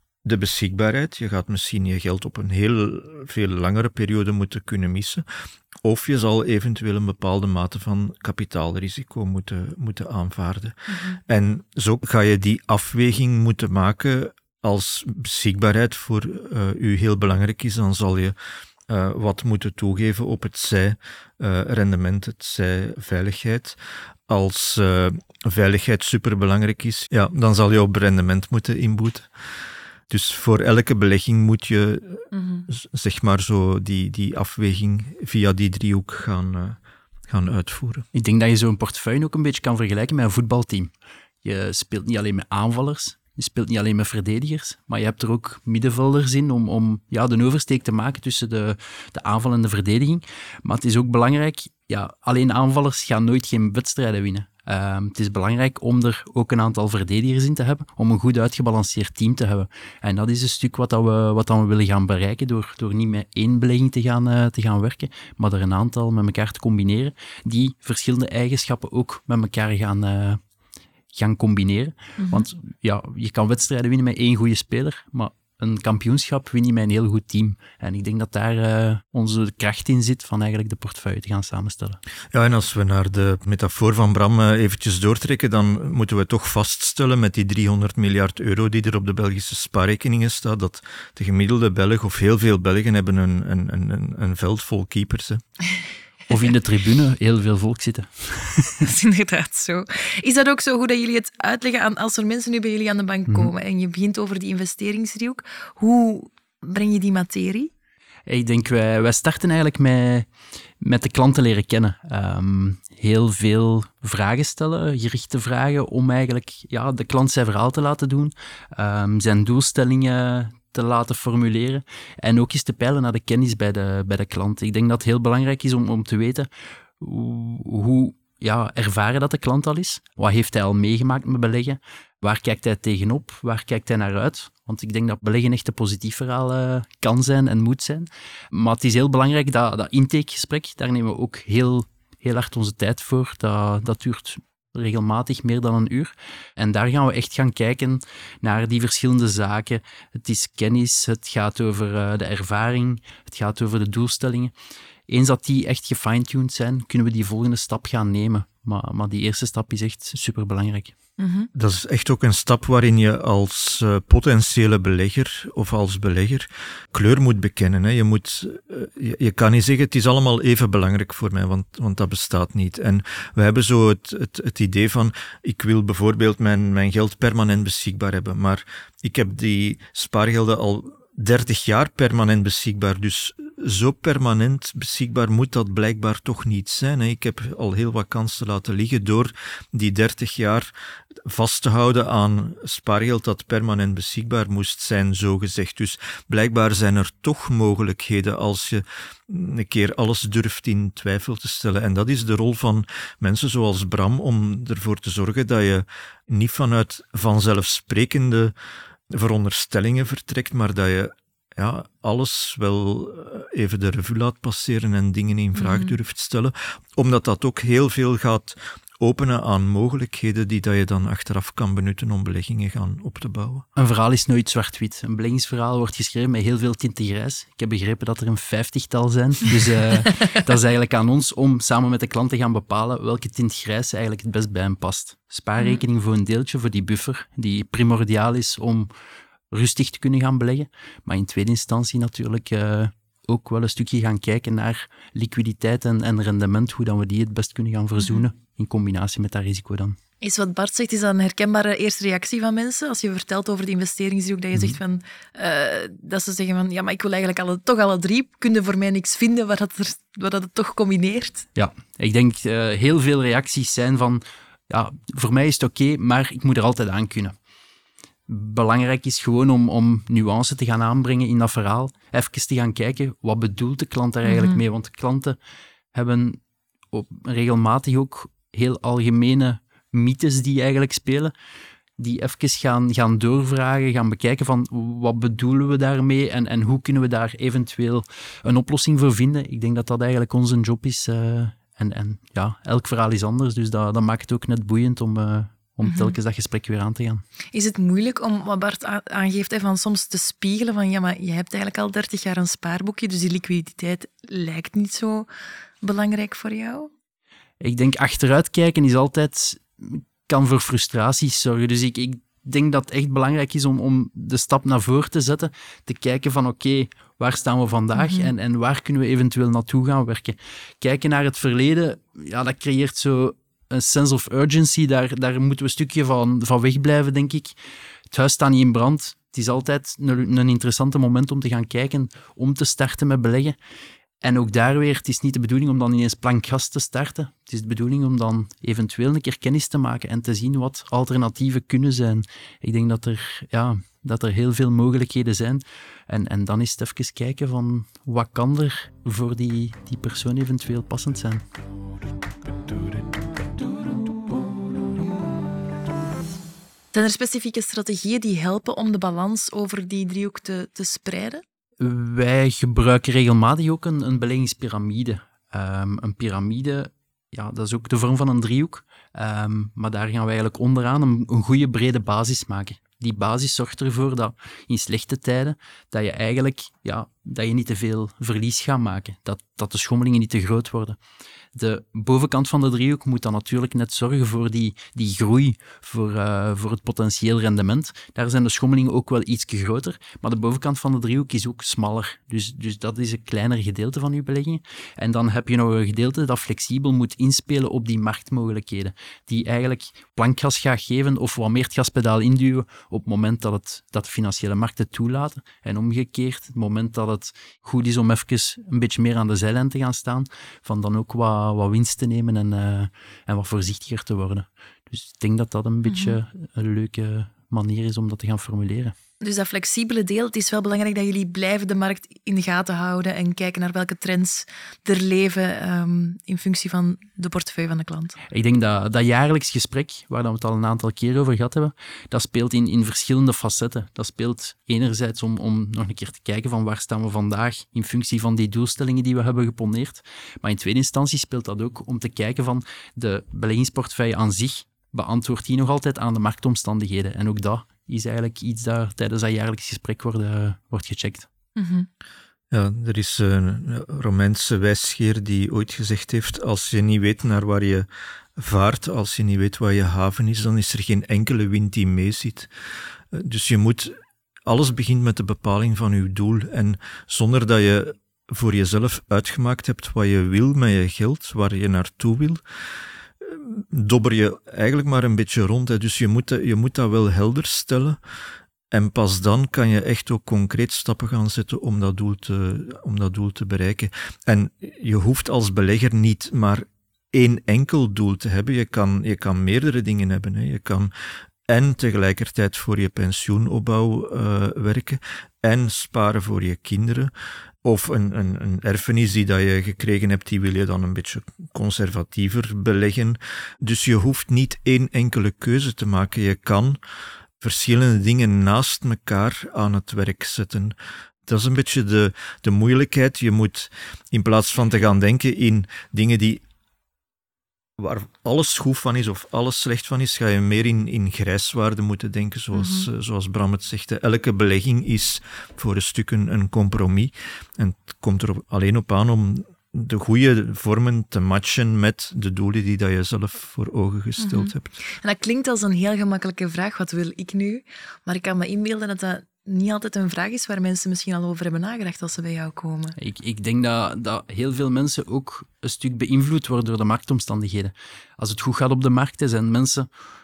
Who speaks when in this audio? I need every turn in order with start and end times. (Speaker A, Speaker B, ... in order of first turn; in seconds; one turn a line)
Speaker A: 0.2-5.2
Speaker A: 5.8-10.8
Speaker B: 10.9-11.2
Speaker A: 11.3-18.4
Speaker A: 18.9-23.8
Speaker A: 24.3-29.3
Speaker A: 30.1-36.8
Speaker B: 32.3-32.7
Speaker A: 37.3-38.0
Speaker C: 38.1-40.9
Speaker C: 41.4-70.4
Speaker C: 71.1-82.0
Speaker B: 72.2-72.5
Speaker A: 82.3-95.4
Speaker C: 96.3-98.8
Speaker B: 98.8-107.7
Speaker C: 108.3-110.3
Speaker C: 110.8-126.5
Speaker C: 127.0-154.5
Speaker C: 155.1-160.9
Speaker B: 161.2-161.5
Speaker A: 161.5-190.7
Speaker A: 191.3-208.5
Speaker A: 209.1-223.6
Speaker B: 215.6-215.9
Speaker C: 223.8-238.9
Speaker C: 239.5-250.0
Speaker B: 248.0-248.2
Speaker B: 250.2-261.4
Speaker C: 254.5-254.8
Speaker C: 261.5-267.3
Speaker C: 268.3-275.4
Speaker B: 274.2-274.6
Speaker C: 275.9-276.4
Speaker C: 276.9-281.3
Speaker C: 282.0-297.2
Speaker B: 295.8-296.1
Speaker B: 297.5-305.3
Speaker B: 305.8-306.9
Speaker C: 307.6-327.6
Speaker B: 317.9-318.3
Speaker C: 328.1-333.5
Speaker C: 334.2-351.4
Speaker B: 356.9-361.4
Speaker C: 361.8-381.0
Speaker C: 381.5-418.9
Speaker B: 415.9-416.2
Speaker B: 419.2-428.1
Speaker C: 428.3-451.3
Speaker B: 451.6-451.9
Speaker A: 452.5-462.5
Speaker A: 463.1-463.9
Speaker A: 464.4-472.4
Speaker A: 473.2-478.0
Speaker A: 478.7-490.9
Speaker A: 491.5-497.1
Speaker A: 497.6-506.8
Speaker A: 507.4-510.7
Speaker A: 511.3-516.4
Speaker A: 517.8-534.7
Speaker B: 522.5-522.9
Speaker B: 534.2-543.0
Speaker C: 543.0-549.9